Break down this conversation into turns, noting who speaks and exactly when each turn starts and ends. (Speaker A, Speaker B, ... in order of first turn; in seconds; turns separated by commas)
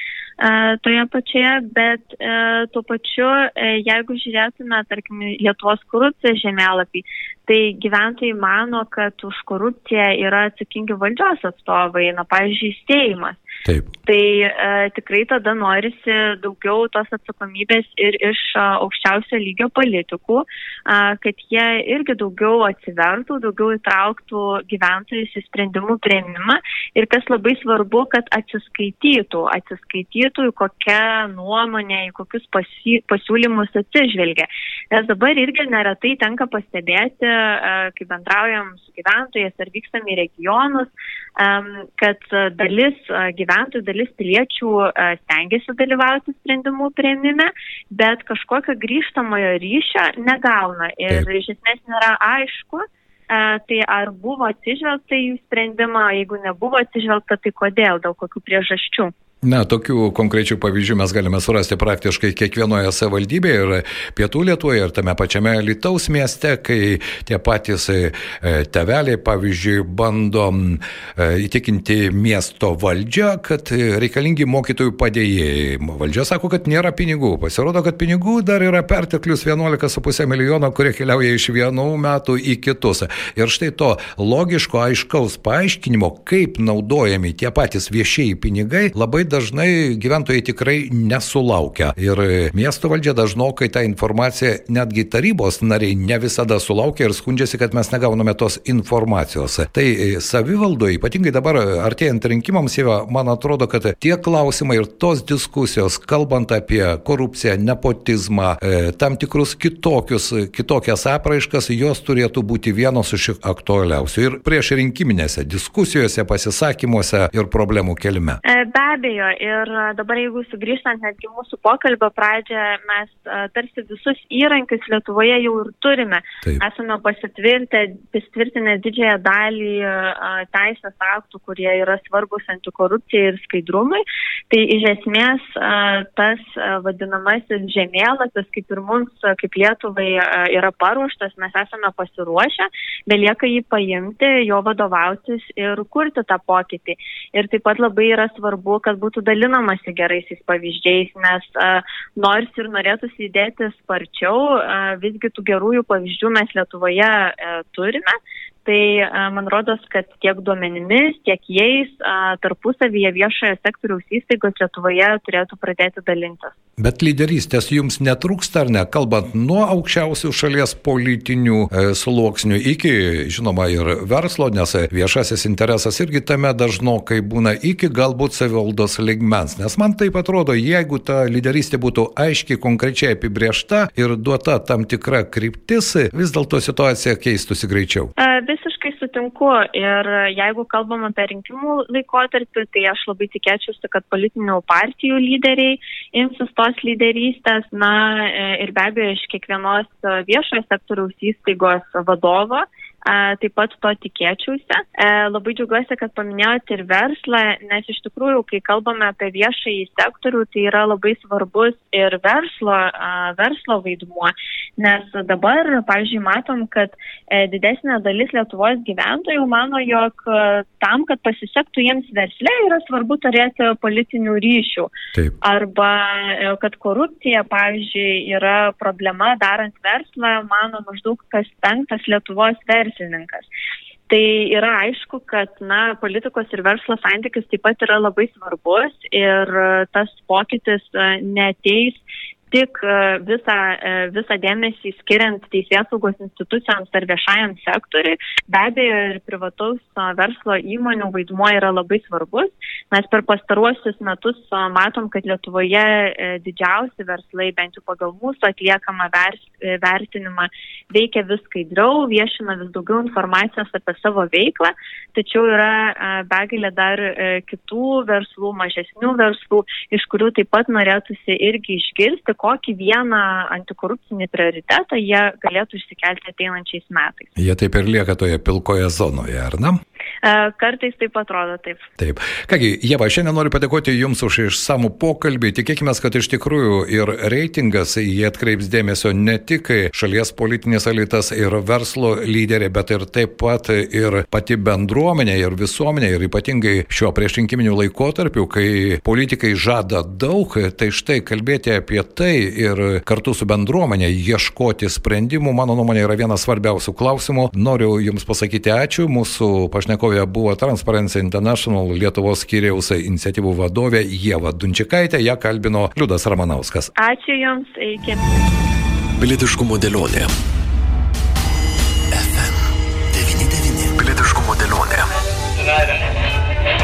Speaker A: 0.4-13.4, Speaker B: 13.6-13.9, Speaker A: 14.1-59.1, Speaker B: 59.4-118.4, Speaker A: 118.4-166.5, Speaker B: 166.8-188.1, Speaker A: 188.2-233.5, Speaker A: 234.1-277.3, Speaker B: 277.4-279.8, Speaker A: 280.2-281.9, Speaker B: 282.0-316.9, Speaker A: 317.0-318.2, Speaker C: 319.2-320.3, Speaker C: 322.1-325.1